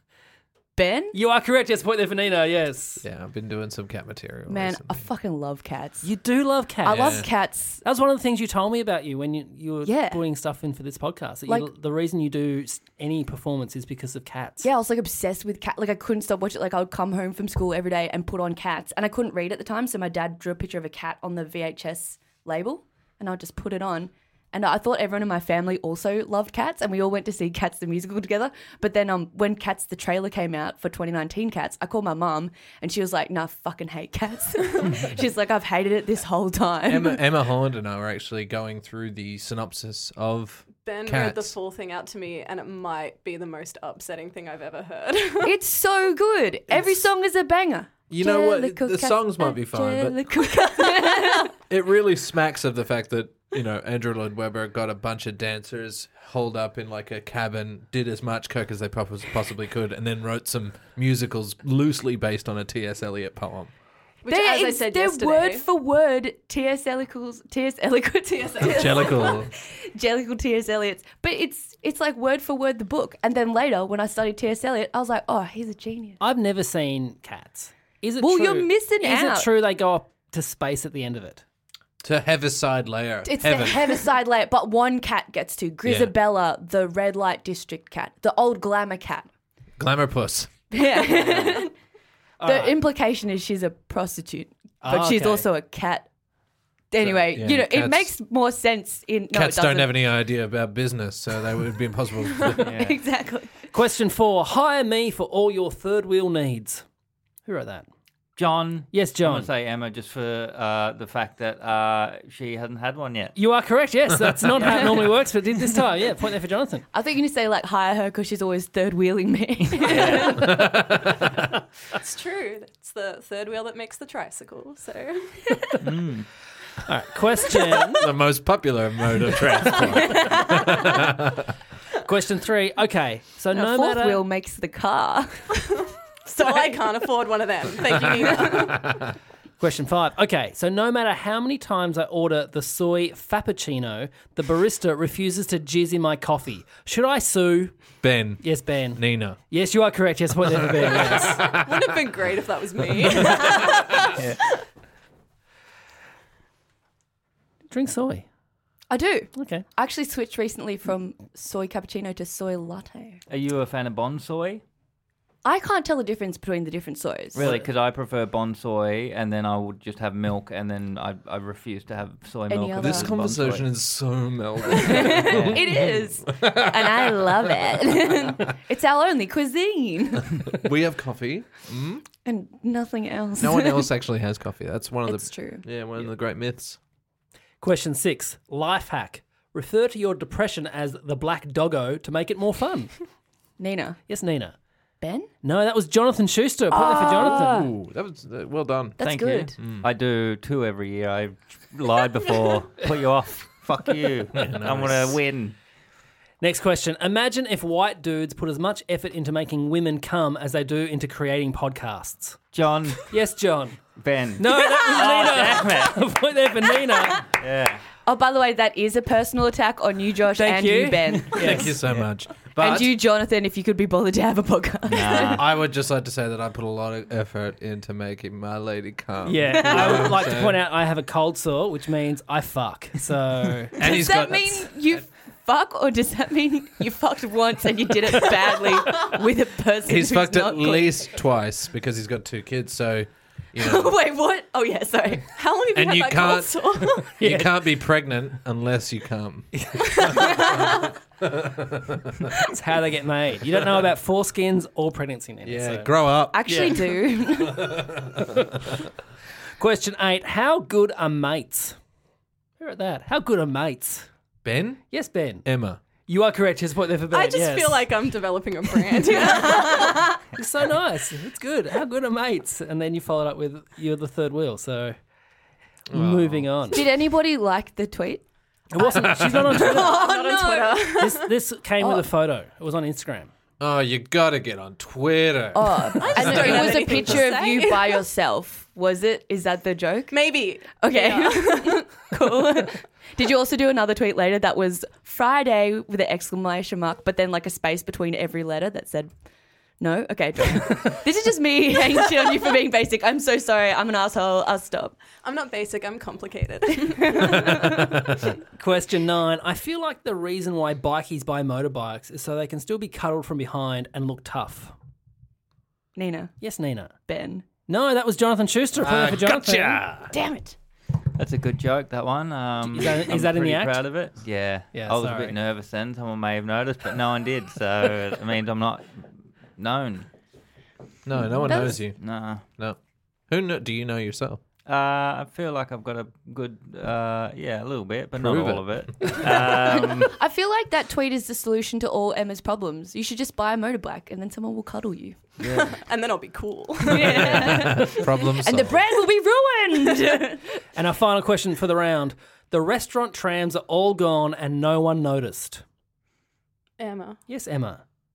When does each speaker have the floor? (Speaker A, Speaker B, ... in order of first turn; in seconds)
Speaker A: 0.8-1.1, 4.5-6.0, 6.8-7.8, 9.8-10.2, 14.6-37.2, 45.4-51.5, 64.3-76.2, 78.2-79.5, 83.2-89.3, 90.7-91.7, 92.4-96.1, 96.9-99.9, 102.5-103.6, 116.9-120.6, 129.9-130.8, 133.5-135.5, 136.4-136.8, 158.9-163.2, 165.4-167.4, 172.5-173.1, 174.7-180.6, 182.2-183.9, 185.1-185.7, 193.6-194.0, 195.0-195.3, 196.7-197.7, 199.0-199.5, 218.0-221.8, 222.6-225.4, 229.7-230.0, 233.8-241.0, 243.6-245.3, 250.1-250.8, 256.3-257.8, 269.2-270.0, 276.7-278.2, 279.0-281.0, 281.8-282.1, 285.5-299.1, 299.8-305.0, 306.9-307.9, 315.9-316.4, 317.1-317.5, 320.1-320.6, 331.4-331.8, 339.6-345.2, 346.9-350.6
Speaker B: 1.1-3.0, 6.0-7.3, 7.8-14.7, 76.2-81.4, 92.4-92.8, 94.8-95.5, 103.7-106.8, 107.5-107.9, 108.9-109.5, 113.3-116.8, 126.8-128.0, 132.0-134.2, 139.6-147.7, 148.4-151.4, 157.7-158.2, 159.3-159.6, 187.6-192.9, 194.1-194.5, 195.4-197.6, 206.4-212.4, 213.1-213.8, 214.4-217.2, 220.3-222.0, 229.2-233.7, 247.2-247.6, 249.5-249.8, 252.5-255.9, 256.4-256.8, 259.6-261.8, 262.6-264.1, 264.9-265.4, 266.1-267.9, 270.3-275.0, 275.9-276.8, 278.7-280.0, 280.9-283.3, 308.6-314.7, 316.4-316.9, 317.7-319.8, 322.6-323.8, 324.7-325.3, 350.7-355.6, 357.3-357.8
Speaker C: 3.0-5.0, 6.9-7.3, 36.9-41.5, 46.7-47.0, 48.1-50.3, 51.7-63.7, 68.6-69.5, 82.0-84.0, 85.8-86.1, 89.8-90.5, 97.0-98.1, 99.3-102.7, 120.4-121.2, 128.0-131.5, 148.0-149.4, 150.7-151.9, 172.8-178.3, 180.4-182.0, 183.4-186.8, 197.1-199.0, 199.6-199.9, 204.3-205.2, 221.3-222.9, 225.3-230.6, 233.7-235.0, 239.8-243.9, 245.7-250.5, 251.2-252.2, 255.4-256.9, 257.4-258.5, 264.4-264.9, 265.4-265.8, 275.9-276.8, 279.0-279.5, 283.6-286.8, 318.8-320.1, 331.0-332.8, 333.3-334.4, 338.2-339.2, 347.0-348.8
Speaker D: 40.8-45.5, 64.2-65.6, 121.9-125.4, 136.2-138.9, 151.5-154.1, 245.3-247.1, 267.1-270.0, 279.5-281.3, 286.0-288.0, 290.1-292.1, 305.2-307.6, 345.5-348.0, 356.8-357.2
Speaker E: 108.4-113.3, 119.8-120.4, 125.8-126.3, 163.3-164.6, 167.3-173.7, 199.0-205.5, 212.5-213.1, 214.0-216.0, 217.3-217.8, 224.9-225.5, 321.1-330.1, 331.9-332.4, 334.6-340.1, 345.4-345.8